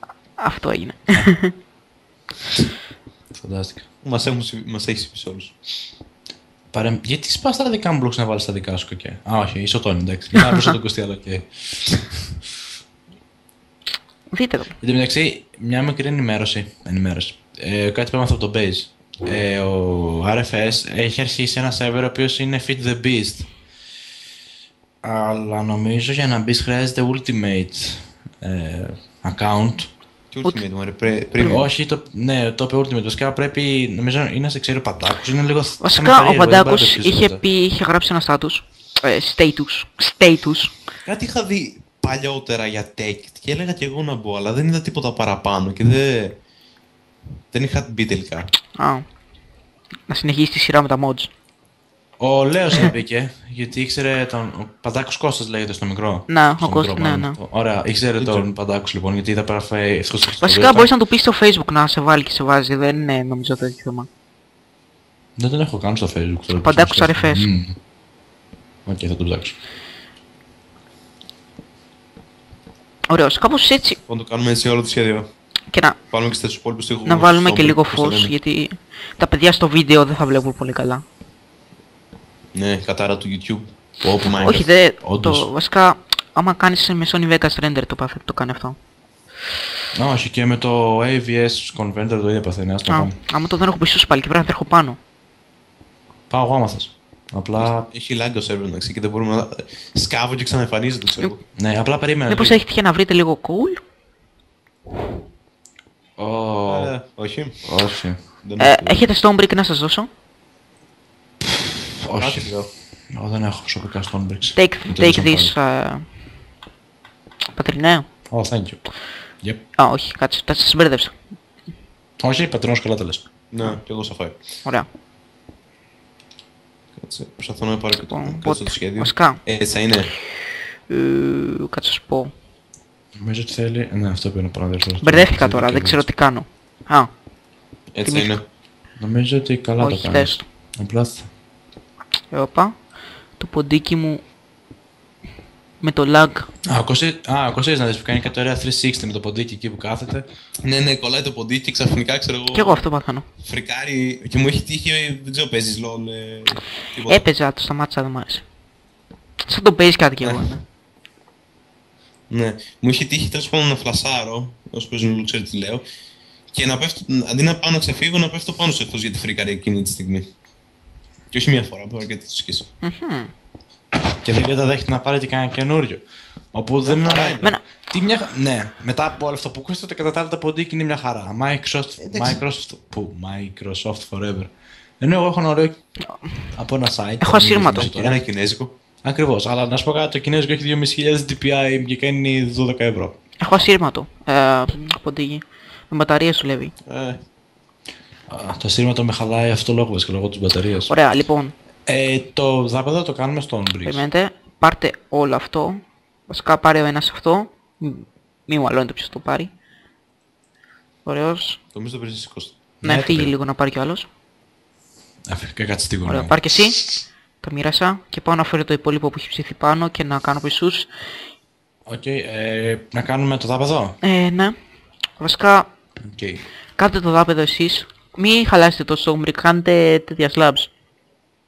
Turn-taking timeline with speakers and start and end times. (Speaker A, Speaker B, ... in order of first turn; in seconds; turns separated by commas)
Speaker A: 0.4-1.5, Speaker B: 3.3-3.9, Speaker C: 4.0-5.6, Speaker B: 6.7-12.2, Speaker A: 14.3-14.7, Speaker B: 14.8-23.5, Speaker B: 25.0-29.9, Speaker C: 30.3-31.7, Speaker B: 31.4-37.4, Speaker A: 31.4-31.6, Speaker A: 35.8-40.7, Speaker C: 41.0-46.4, Speaker C: 47.5-48.5, Speaker A: 48.8-49.0, Speaker A: 50.1-51.3, Speaker B: 52.2-60.9, Speaker A: 56.3-57.4, Speaker C: 58.2-58.5, Speaker A: 60.4-64.1, Speaker B: 65.4-67.8, Speaker A: 66.5-67.5, Speaker B: 68.9-69.6, Speaker A: 73.1-74.0, Speaker C: 74.1-75.3, Speaker A: 75.7-76.0, Speaker C: 76.1-78.3, Speaker A: 77.0-81.0, Speaker C: 82.5-84.7, Speaker B: 84.2-85.5, Speaker A: 84.4-88.8, Speaker B: 90.0-93.2, Speaker A: 92.9-95.0, Speaker B: 96.3-97.9, Speaker C: 97.6-101.4, Speaker B: 101.5-102.6, Speaker A: 102.3-103.8, Speaker B: 106.2-106.9, Speaker C: 106.7-107.7, Speaker B: 107.7-108.2, Speaker C: 108.3-109.0, Speaker A: 108.6-110.1, Speaker B: 111.4-115.5, Speaker C: 112.2-112.7, Speaker A: 114.5-116.1, Speaker A: 117.5-118.0, Speaker B: 118.3-118.9, Speaker A: 119.8-121.1, Speaker B: 122.2-123.2, Speaker C: 123.5-124.4, Speaker C: 127.0-130.1, Speaker A: 128.1-129.4, Speaker A: 130.9-132.3, Speaker B: 133.2-136.1, Speaker A: 135.0-137.1, Speaker C: 137.9-138.4, Speaker A: 138.0-138.3, Speaker B: 139.0-141.3, Speaker A: 139.8-140.4, Speaker A: 142.3-142.8, Speaker A: 143.4-144.2, Speaker A: 145.8-146.5, Speaker B: 146.7-150.3, Speaker C: 150.6-152.8, Speaker A: 152.5-153.2, Speaker C: 153.4-157.2, Speaker A: 157.1-158.4, Speaker A: 159.5-160.6, Speaker C: 160.2-160.5, Speaker C: 162.3-165.8, Speaker C: 166.5-170.3, Speaker C: 171.3-172.7, Speaker A: 172.8-173.3, Speaker B: 174.1-185.8, Speaker C: 176.9-177.4, Speaker C: 182.0-182.4, Speaker A: 186.1-186.5, Speaker B: 186.5-188.2, Speaker A: 187.2-187.8, Speaker C: 187.7-188.7, Speaker B: 189.0-193.1, Speaker A: 193.4-196.7, Speaker C: 196.9-197.2, Speaker B: 198.3-200.9, Speaker A: 200.9-201.5, Speaker B: 201.9-204.0, Speaker A: 203.8-209.5, Speaker A: 211.1-211.6, Speaker C: 211.7-212.6, Speaker B: 212.8-213.3, Speaker A: 212.8-214.1, Speaker B: 215.3-216.4, Speaker A: 216.1-220.9, Speaker B: 221.9-224.0, Speaker A: 224.0-224.6, Speaker A: 225.2-225.7, Speaker B: 226.0-226.4, Speaker A: 226.8-230.7